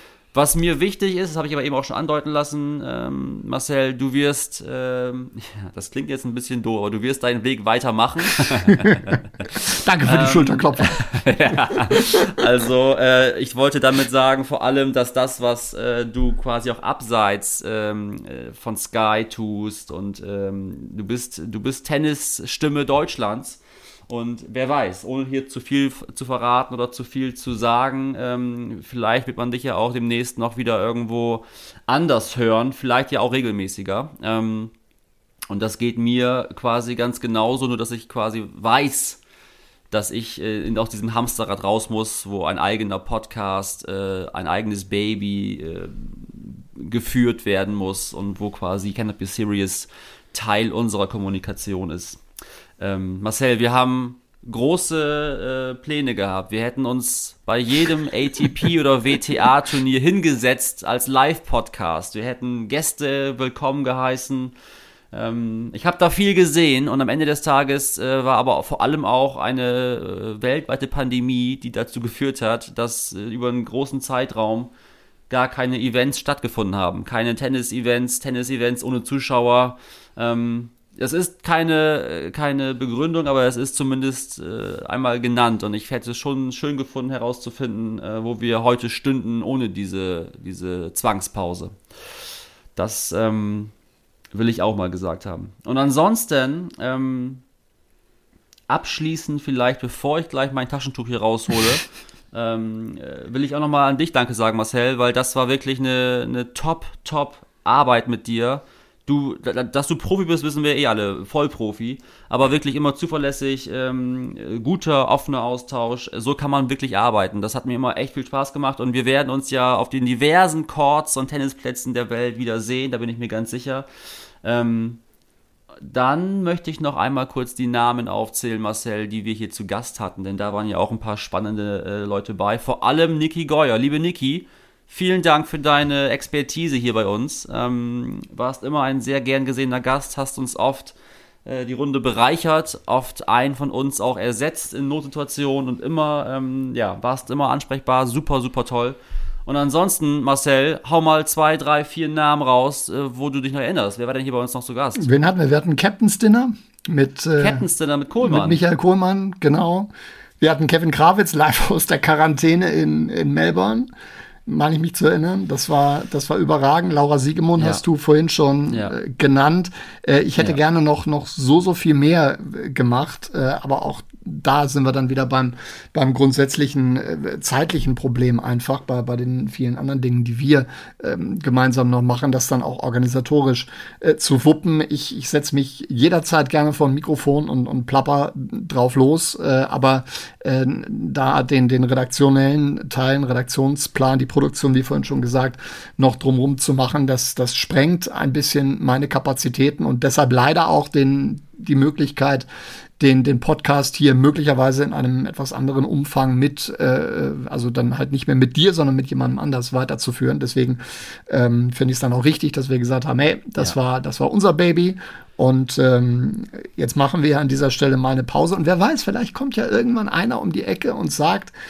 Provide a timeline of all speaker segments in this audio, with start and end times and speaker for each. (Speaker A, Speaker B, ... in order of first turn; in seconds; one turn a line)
Speaker A: 0.3-9.2
Speaker B: 8.6-11.0
Speaker A: 10.1-34.7
Speaker B: 11.9-12.2
Speaker A: 35.5-39.2
Speaker A: 39.9-52.2
Speaker A: 52.8-64.5
Speaker A: 65.1-74.7
Speaker A: 75.3-91.8
Speaker A: 92.8-93.7
Speaker A: 94.3-97.4
Speaker A: 98.7-123.9
Speaker A: 124.4-125.0
Speaker A: 125.8-155.1
Speaker B: 155.0-157.7
Speaker A: 157.4-158.6
Speaker B: 158.2-159.9
Speaker B: 160.4-163.9
Speaker B: 164.5-202.5
Speaker A: 168.7-169.0
Speaker B: 203.0-221.5